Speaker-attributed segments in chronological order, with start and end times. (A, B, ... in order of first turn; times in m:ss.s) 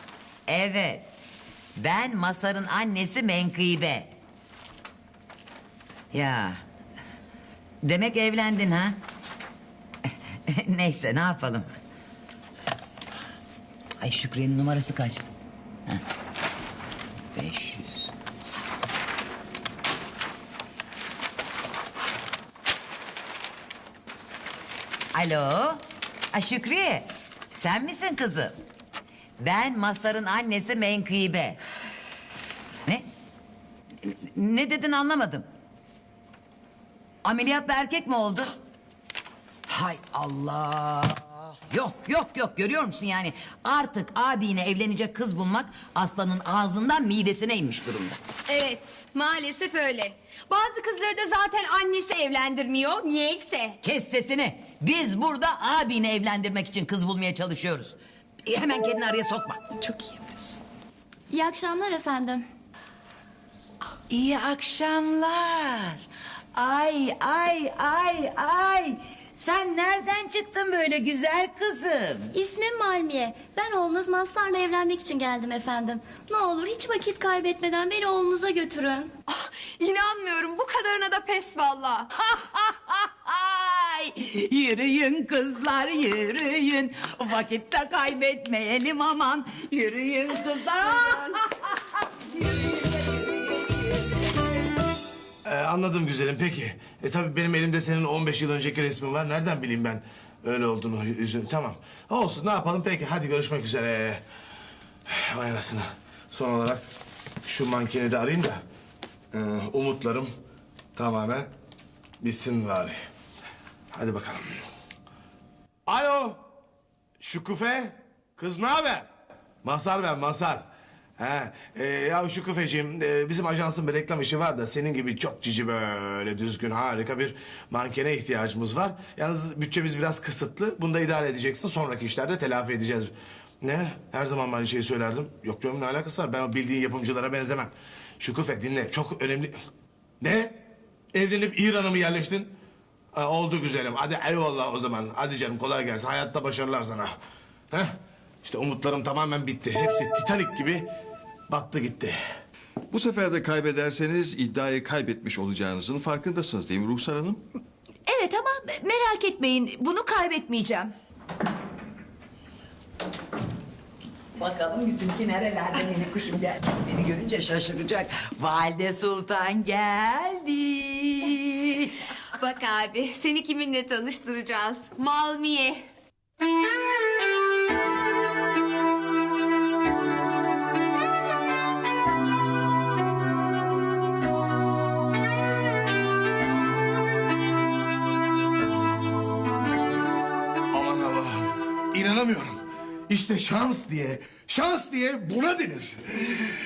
0:00.5-0:01.1 A
0:01.8-0:04.1 A
0:06.1-0:06.6 A
0:07.8-0:09.0 A
0:10.5-0:11.8 A
0:14.0-0:15.3 A
0:17.3-0:18.1 A
0:25.1-0:28.6 A
0:29.4-0:31.6 A
0:34.0-0:35.4 A
0:37.2-0:38.5 A
0:39.7-0:48.2 A
0:48.5-0:53.8 B
0:53.8-0:59.6 A
0:59.8-1:00.4 C
1:01.3-1:02.4 C
1:04.1-1:06.0 A
1:06.5-1:12.3 A
1:12.3-1:19.1 C
1:19.3-1:22.1 B
1:22.3-1:34.0 A
1:35.4-1:44.2 D
1:45.1-1:46.8 D
1:47.4-1:48.6 D
1:49.3-1:50.3 D
1:50.9-1:51.5 D
1:52.2-1:53.0 D
1:53.9-1:54.4 D
1:55.9-1:56.4 D
1:57.2-1:59.1 D
1:59.6-2:00.6 D
2:01.2-2:19.5 D
2:20.2-2:20.6 D
2:21.1-2:22.5 D
2:23.1-2:27.1 D
2:27.7-2:30.9 D
2:31.5-2:32.1 D
2:32.9-2:37.4 E
2:38.1-2:40.9 F
2:44.4-2:51.9 A
2:52.4-2:55.8 B
3:10.7-3:16.4 D